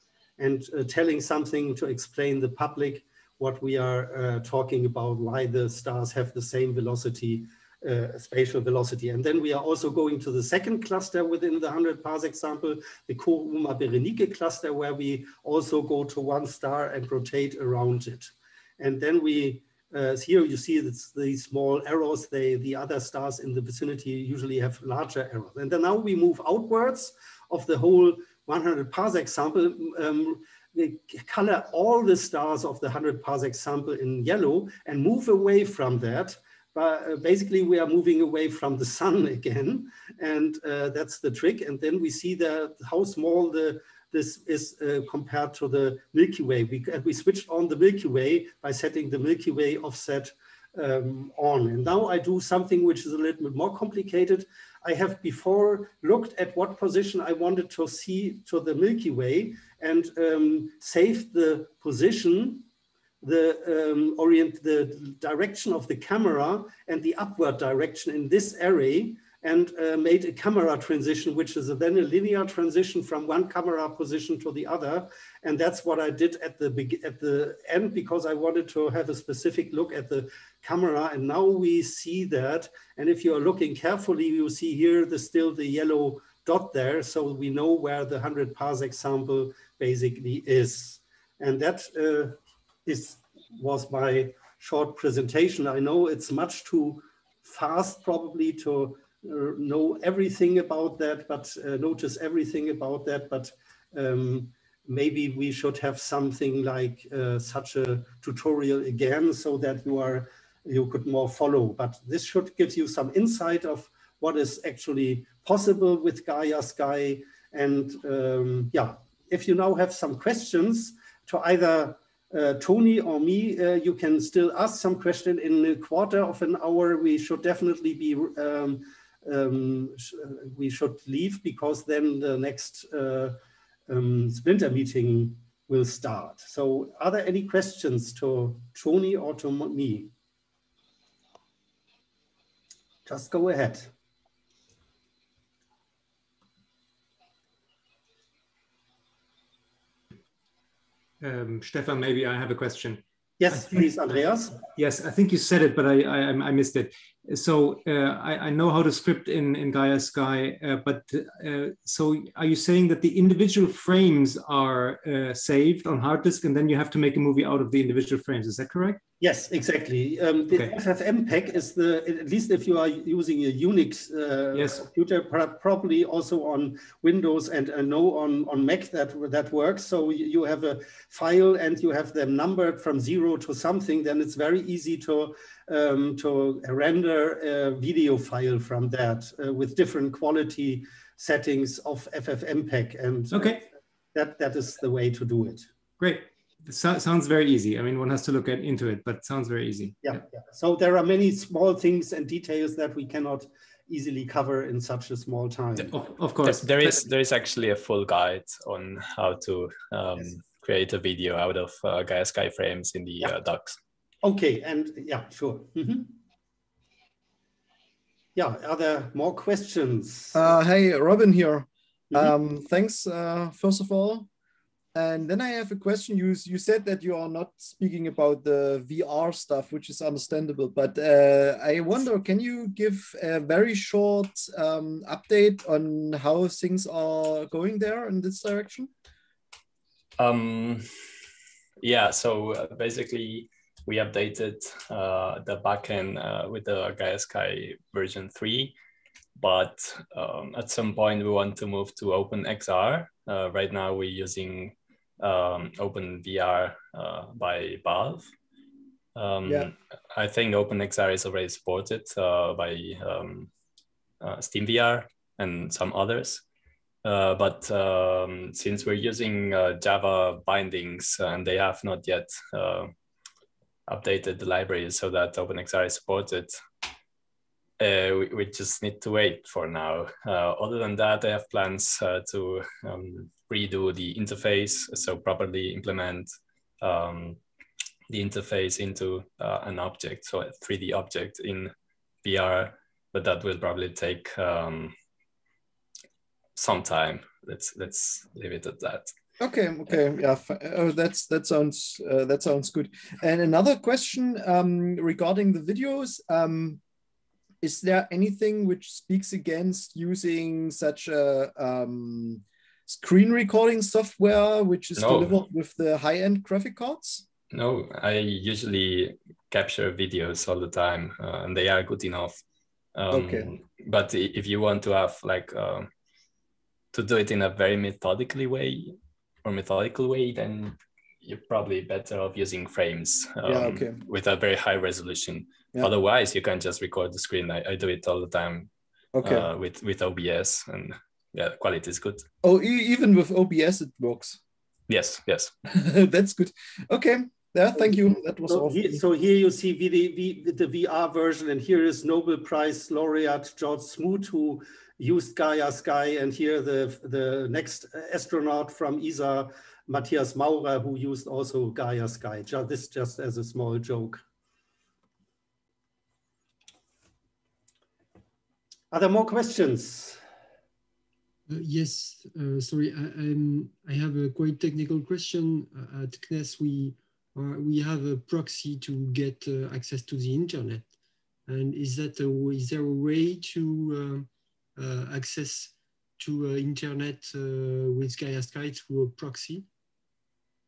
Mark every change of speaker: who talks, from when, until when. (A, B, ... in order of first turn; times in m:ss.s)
0:00.4-1:02.6 A
1:03.2-2:13.4 A
2:13.9-2:20.1 A
2:23.0-2:23.9 A
2:31.2-2:33.8 B
2:33.4-2:34.6 A
2:34.7-2:49.0 B
2:49.2-3:15.7 A
2:54.5-2:54.8 B
3:13.3-3:13.6 B
3:16.0-3:20.0 B
3:20.0-3:26.0 A
3:25.9-3:27.0 B
3:26.4-3:33.8 C
3:34.2-3:36.1 A
3:38.4-3:40.4 A
3:40.3-3:44.3 D
3:44.9-3:58.9 D
4:00.2-4:00.8 C
4:01.8-4:08.7 C
4:09.4-4:18.3 C
4:19.1-4:23.5 C
4:24.2-4:26.4 C
4:27.0-4:32.9 C
4:33.9-4:36.5 C
4:37.8-4:47.4 C
4:48.1-4:51.7 C
4:52.2-4:54.9 C
4:56.6-4:59.1 C
4:59.4-5:06.8 D
5:07.6-5:17.2 D
5:15.0-5:15.3 C
5:17.5-5:22.4 C
5:23.0-5:25.9 C
5:23.1-5:23.5 D
5:26.9-5:38.7 C
5:33.4-5:34.0 D
5:39.1-5:39.5 D
5:39.2-5:42.2 C
5:42.4-5:44.4 D
5:44.9-5:45.5 C
5:45.7-5:49.0 D
5:48.5-6:04.2 A
6:08.9-6:10.2 A
6:11.5-6:20.9 E
6:21.5-6:29.6 E